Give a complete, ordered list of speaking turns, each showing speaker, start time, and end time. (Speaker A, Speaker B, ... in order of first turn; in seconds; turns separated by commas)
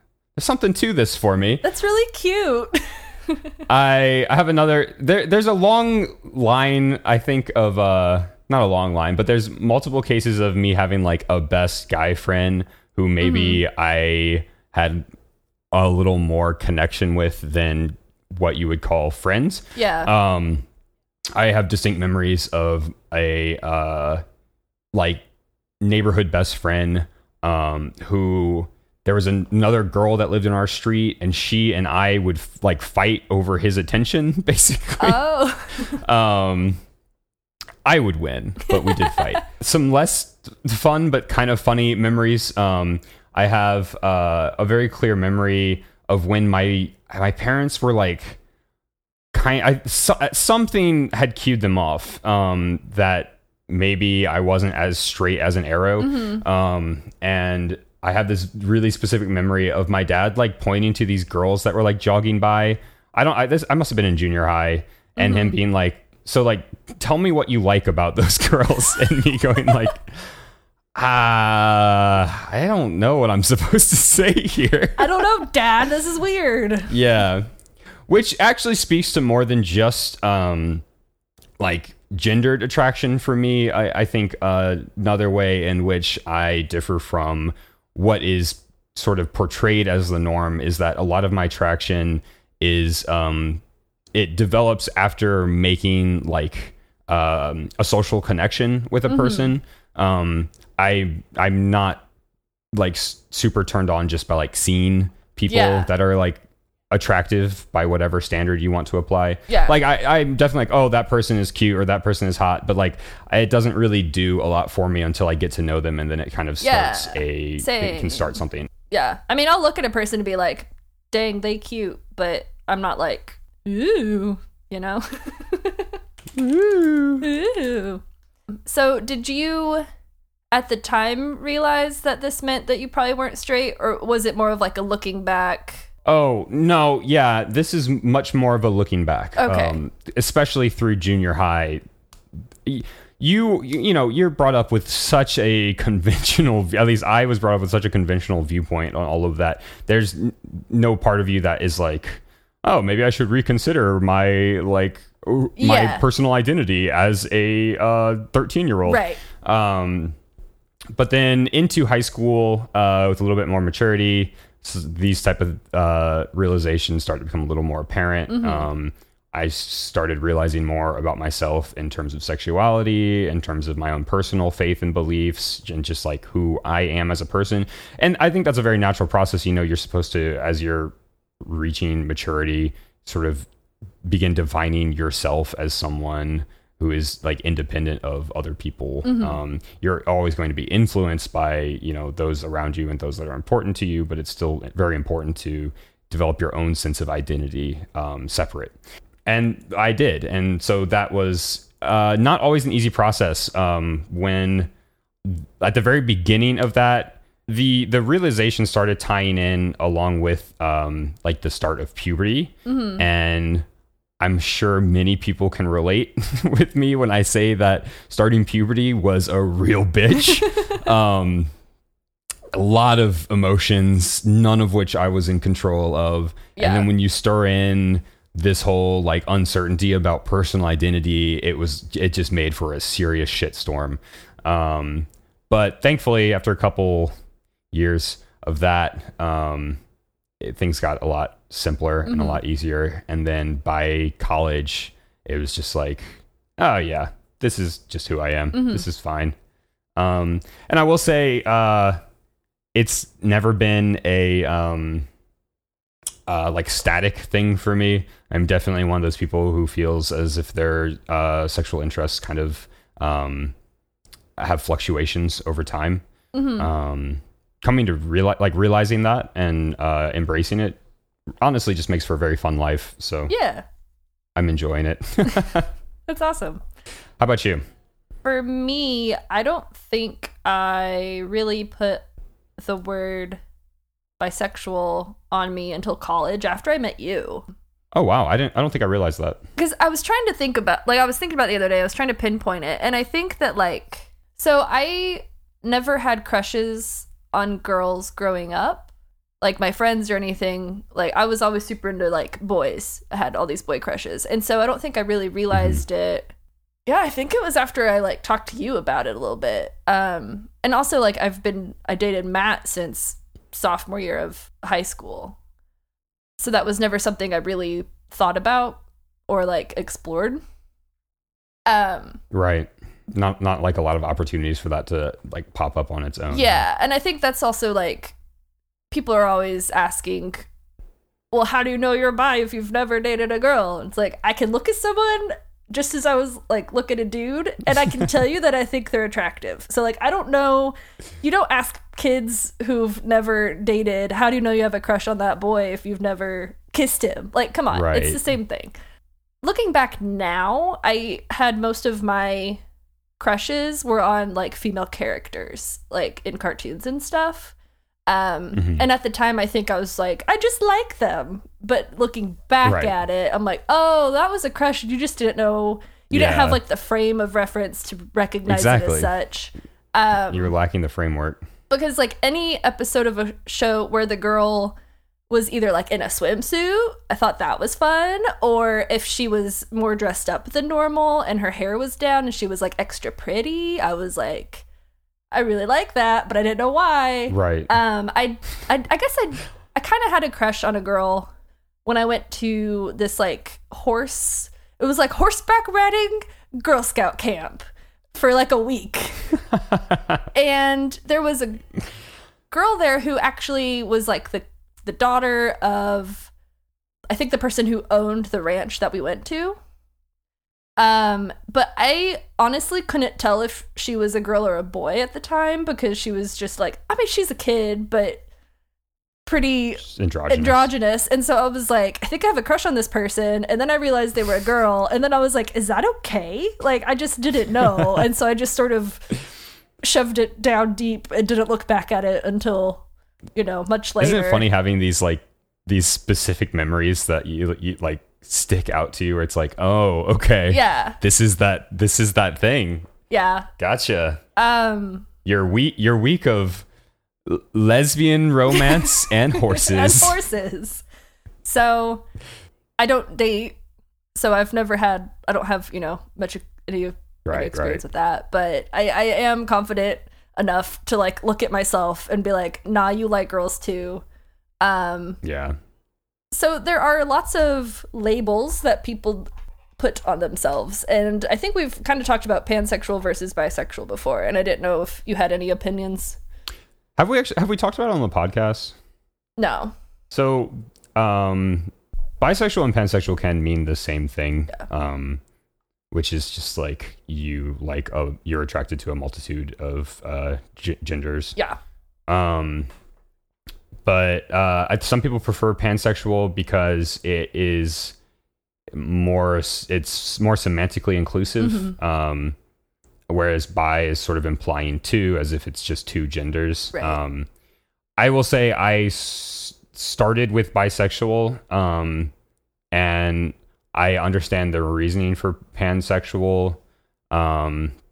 Speaker A: 0.3-1.6, Speaker B: 1.6-3.4, Speaker A: 3.7-15.0, Speaker B: 13.2-13.6, Speaker A: 15.7-20.6, Speaker B: 19.7-20.1, Speaker A: 21.3-24.2, Speaker A: 24.9-25.2, Speaker A: 25.8-35.3, Speaker B: 35.0-36.0, Speaker A: 35.8-36.8, Speaker A: 37.8-48.4, Speaker B: 38.7-39.4, Speaker A: 49.3-70.2, Speaker B: 56.0-56.4, Speaker B: 65.2-65.6, Speaker A: 70.9-75.5, Speaker B: 75.0-77.0, Speaker A: 76.9-77.5, Speaker A: 78.1-80.8, Speaker A: 81.6-93.6, Speaker A: 94.1-102.0, Speaker B: 99.1-99.5, Speaker A: 102.7-118.7, Speaker B: 105.5-105.9, Speaker B: 109.5-109.8, Speaker B: 116.6-118.4, Speaker B: 118.9-126.0, Speaker A: 126.3-127.3, Speaker B: 127.2-128.0, Speaker B: 128.7-129.8, Speaker B: 130.5-135.9, Speaker A: 136.0-141.8, Speaker B: 139.4-139.8, Speaker A: 142.6-160.1, Speaker B: 155.6-156.0, Speaker B: 158.9-159.2, Speaker A: 160.9-183.5, Speaker B: 168.3-168.7, Speaker A: 184.0-204.7, Speaker B: 189.0-189.4, Speaker A: 205.2-213.6, Speaker B: 212.7-213.0, Speaker A: 214.2-221.5, Speaker A: 222.5-237.1, Speaker B: 226.6-226.9, Speaker A: 237.7-239.8, Speaker A: 240.4-249.3, Speaker B: 242.1-242.4, Speaker B: 248.5-248.8, Speaker A: 250.0-252.0, Speaker A: 252.7-255.1, Speaker A: 256.3-263.5, Speaker A: 264.4-266.0, Speaker B: 266.3-266.7, Speaker A: 266.6-270.8, Speaker A: 271.4-273.3, Speaker B: 273.3-273.6, Speaker A: 274.4-275.7, Speaker B: 276.1-276.6, Speaker A: 277.2-277.6, Speaker B: 278.2-282.1, Speaker B: 282.6-283.4, Speaker B: 284.2-287.4, Speaker A: 287.9-289.4, Speaker B: 289.6-298.9, Speaker B: 299.4-306.3, Speaker A: 305.5-305.8, Speaker B: 306.9-315.4, Speaker B: 316.4-320.4, Speaker B: 321.7-322.2, Speaker A: 322.3-326.6, Speaker B: 326.3-328.1, Speaker B: 328.9-330.5, Speaker B: 331.3-348.7, Speaker A: 347.7-348.2, Speaker B: 349.4-352.6, Speaker B: 353.2-357.5, Speaker B: 358.1-370.5, Speaker A: 358.5-358.8, Speaker A: 362.6-362.9, Speaker A: 366.1-366.6, Speaker A: 368.5-369.1, Speaker A: 370.3-371.4, Speaker B: 371.7-374.8, Speaker B: 375.3-384.6, Speaker B: 385.3-391.3, Speaker A: 387.3-387.7, Speaker B: 391.9-399.4, Speaker B: 400.3-401.6, Speaker B: 402.5-406.3, Speaker B: 407.1-409.6, Speaker B: 410.8-418.2, Speaker B: 419.2-429.0, Speaker A: 419.8-420.7, Speaker B: 429.8-432.8, Speaker B: 433.4-434.5, Speaker A: 434.0-442.9, Speaker B: 440.5-441.0, Speaker B: 443.1-443.5, Speaker A: 443.6-444.2, Speaker B: 444.4-445.1, Speaker A: 445.2-446.6, Speaker A: 447.2-450.2, Speaker B: 448.5-450.8, Speaker B: 451.4-452.0, Speaker B: 452.8-453.6, Speaker B: 454.1-464.0, Speaker A: 457.2-457.8, Speaker B: 464.6-465.2, Speaker A: 465.2-465.6, Speaker B: 466.3-476.2, Speaker A: 477.0-478.7, Speaker B: 479.4-479.7, Speaker A: 480.1-485.2, Speaker A: 485.9-491.4, Speaker A: 492.1-492.7, Speaker A: 493.8-497.9, Speaker A: 498.7-502.4, Speaker B: 501.4-501.8, Speaker A: 503.1-507.3, Speaker B: 506.7-507.0, Speaker A: 508.0-512.1, Speaker A: 512.7-516.6, Speaker A: 517.1-517.7